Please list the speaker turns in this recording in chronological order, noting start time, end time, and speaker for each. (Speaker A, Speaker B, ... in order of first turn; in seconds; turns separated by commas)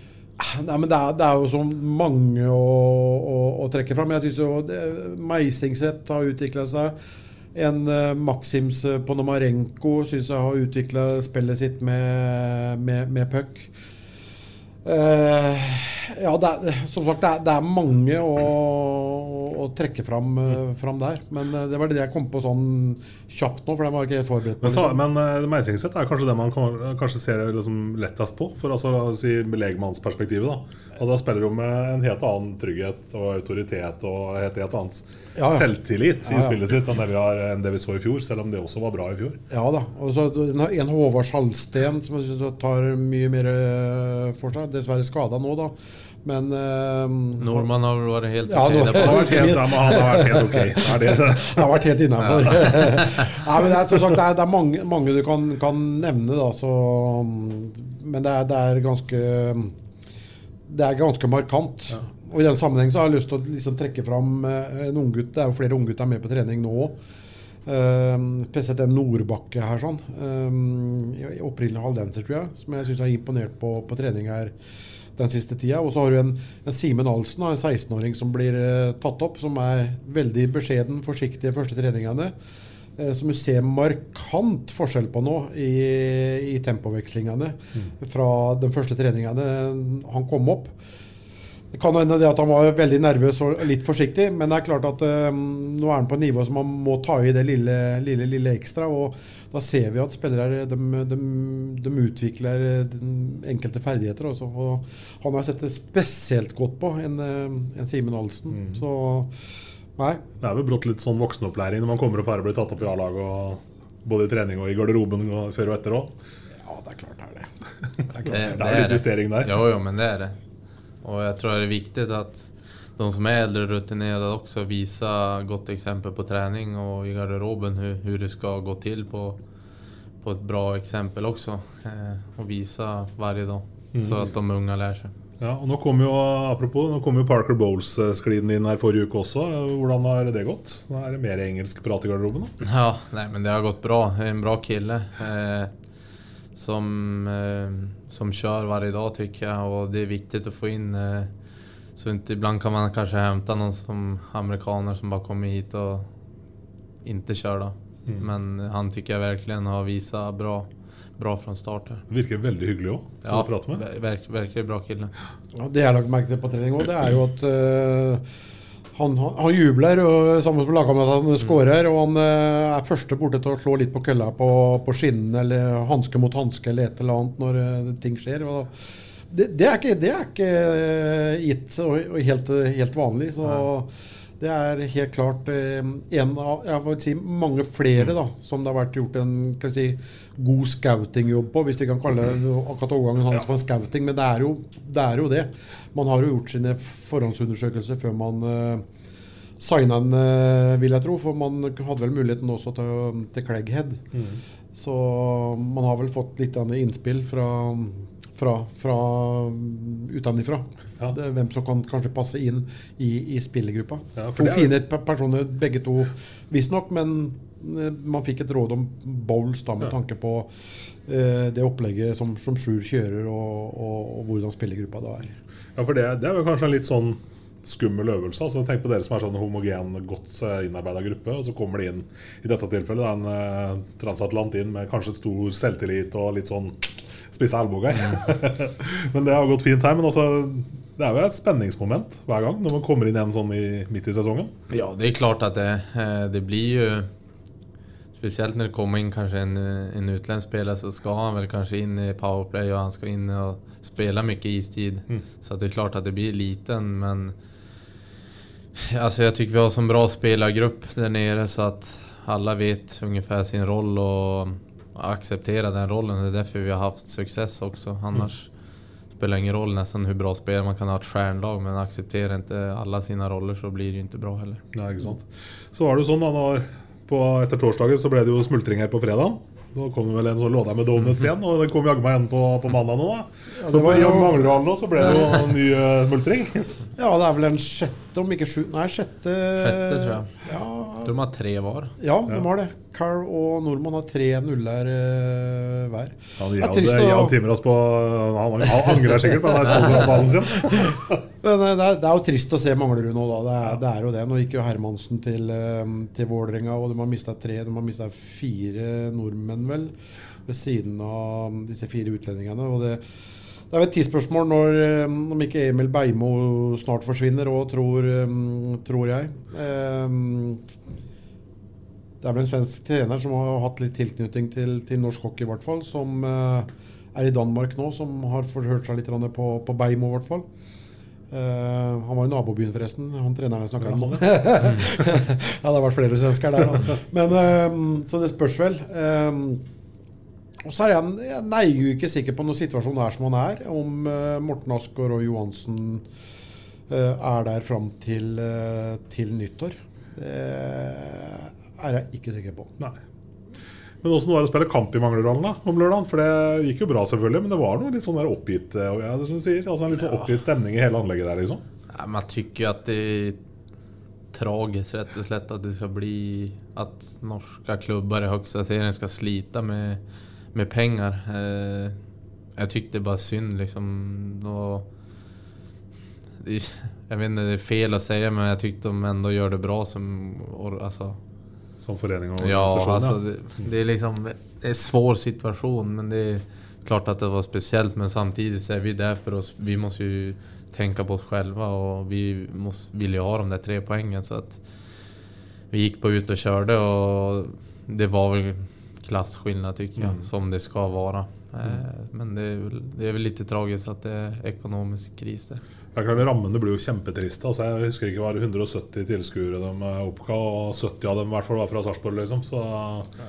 Speaker A: 0.4-7.0, Speaker A: 7.5-13.7, Speaker A: 14.8-25.0, Speaker B: 24.6-39.4, Speaker A: 35.4-35.7, Speaker A: 36.2-36.6, Speaker A: 39.5-47.7, Speaker C: 47.4-49.5, Speaker A: 48.5-59.8, Speaker B: 48.9-51.7, Speaker B: 52.4-53.0, Speaker A: 60.7-67.0, Speaker A: 67.7-74.5, Speaker A: 75.2-82.3, Speaker A: 83.0-90.8, Speaker A: 91.7-109.3, Speaker B: 108.5-108.8, Speaker A: 110.0-110.2, Speaker B: 110.4-116.1, Speaker A: 116.6-117.5, Speaker A: 118.1-118.6, Speaker B: 118.2-119.6, Speaker C: 118.3-120.4, Speaker C: 121.0-129.4, Speaker C: 130.2-135.1, Speaker B: 133.9-134.2, Speaker B: 135.4-142.6, Speaker C: 142.6-145.7, Speaker C: 146.6-151.3, Speaker C: 152.0-156.1, Speaker C: 157.0-162.0, Speaker B: 162.1-163.8, Speaker C: 163.2-165.1, Speaker A: 165.5-168.2, Speaker A: 168.9-198.9, Speaker A: 199.6-204.1, Speaker B: 204.1-204.4, Speaker A: 204.7-220.5, Speaker B: 214.2-214.7, Speaker A: 221.1-225.4, Speaker B: 225.8-236.8, Speaker B: 237.3-244.5, Speaker C: 244.7-247.1, Speaker C: 248.2-257.3, Speaker C: 258.8-268.5, Speaker C: 269.2-274.6, Speaker B: 274.7-286.8, Speaker A: 283.6-284.6, Speaker A: 287.0-291.2, Speaker C: 289.6-290.3, Speaker C: 291.0-291.9, Speaker A: 292.0-297.4, Speaker B: 296.4-301.2, Speaker A: 298.7-309.9, Speaker A: 310.5-313.0, Speaker A: 313.7-320.6, Speaker A: 322.2-330.5, Speaker A: 331.3-339.7, Speaker B: 333.8-335.1, Speaker A: 340.6-346.1, Speaker A: 346.9-352.7, Speaker B: 354.0-361.6, Speaker C: 361.9-363.4, Speaker C: 364.3-370.0, Speaker C: 370.5-372.0, Speaker C: 372.6-374.9, Speaker C: 376.4-381.2, Speaker B: 381.8-383.2, Speaker C: 382.4-394.6, Speaker C: 395.7-405.6, Speaker B: 400.0-400.3, Speaker B: 405.9-413.1